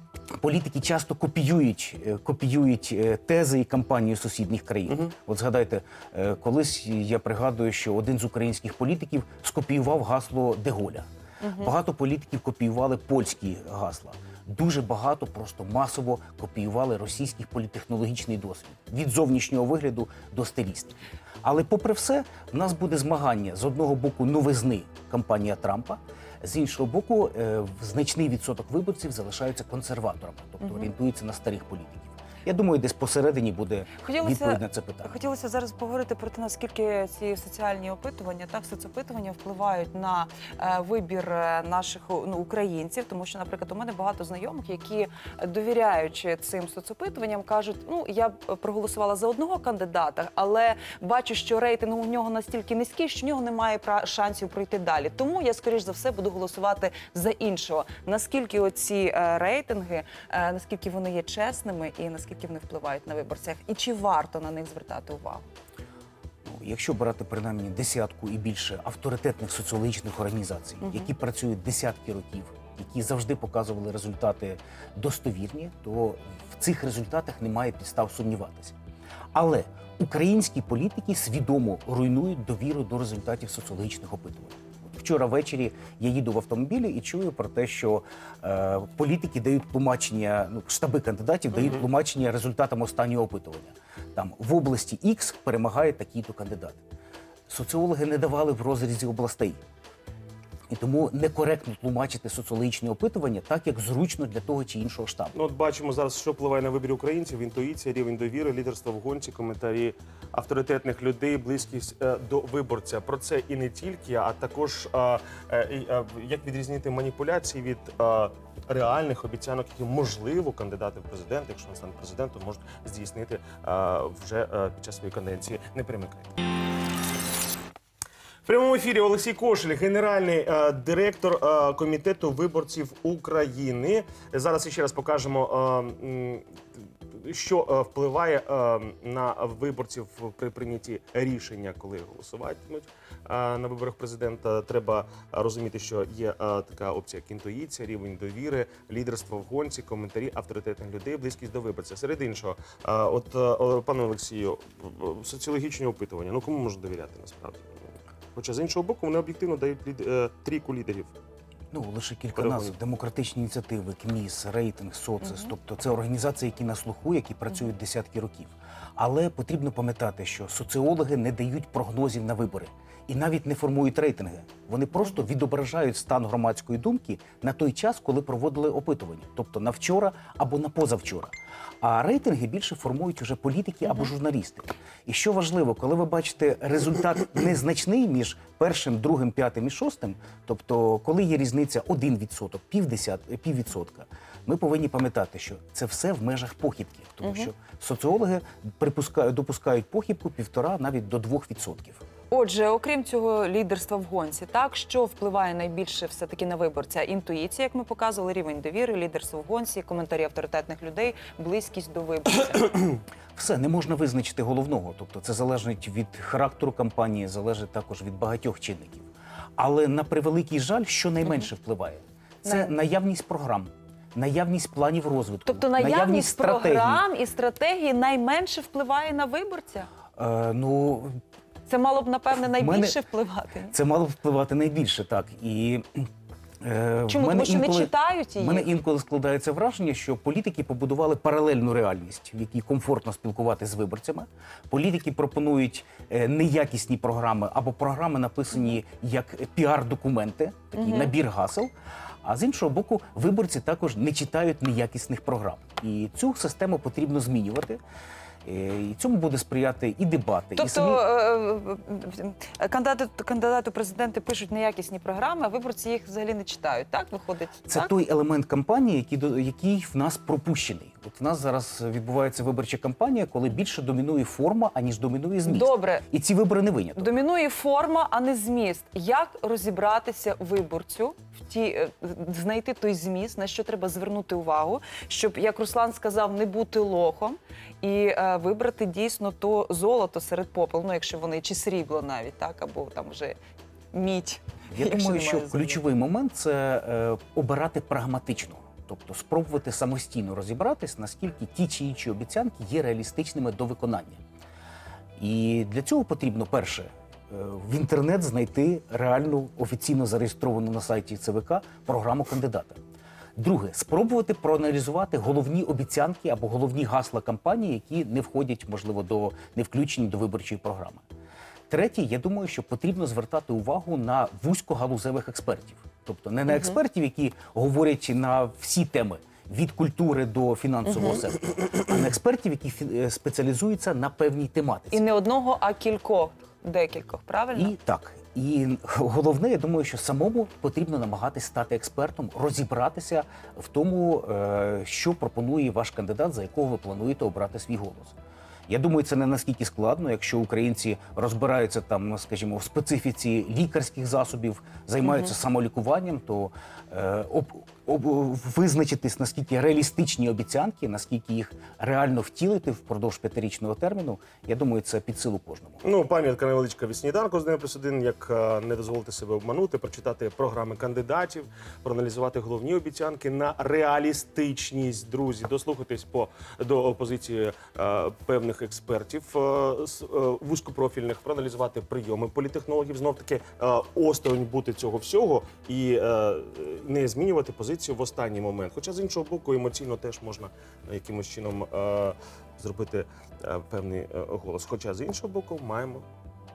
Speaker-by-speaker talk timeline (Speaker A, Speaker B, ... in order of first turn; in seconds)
Speaker A: 0.3-35.2, 66.5-78.7, 79.3-96.8, 97.5-99.6, 100.7-105.3, 161.7-202.0, 213.3-227.0, 230.2-231.2, 232.3-233.0, 233.7-236.0, 236.6-251.7, 252.2-257.8, 258.4-261.0, 267.7-277.2, 294.7-304.2, 305.2-312.8, 313.4-321.0, 321.7-335.0, 337.5-348.1, 348.7-365.8
Speaker B: 11.4-11.7, 30.6-30.9, 34.0-65.4, 70.8-71.1, 197.2-197.5, 202.3-212.9, 222.4-222.7, 225.4-229.9, 231.7-233.7, 237.1-238.7, 250.7-251.1, 260.6-267.9, 275.4-276.1, 277.0-293.4, 293.9-295.8, 326.5-326.8, 330.9-331.2, 334.9-337.7, 355.0-355.3
Speaker C: 105.3-126.3, 128.4-136.4, 137.1-157.8, 158.3-161.1, 162.3-162.7, 365.8-396.0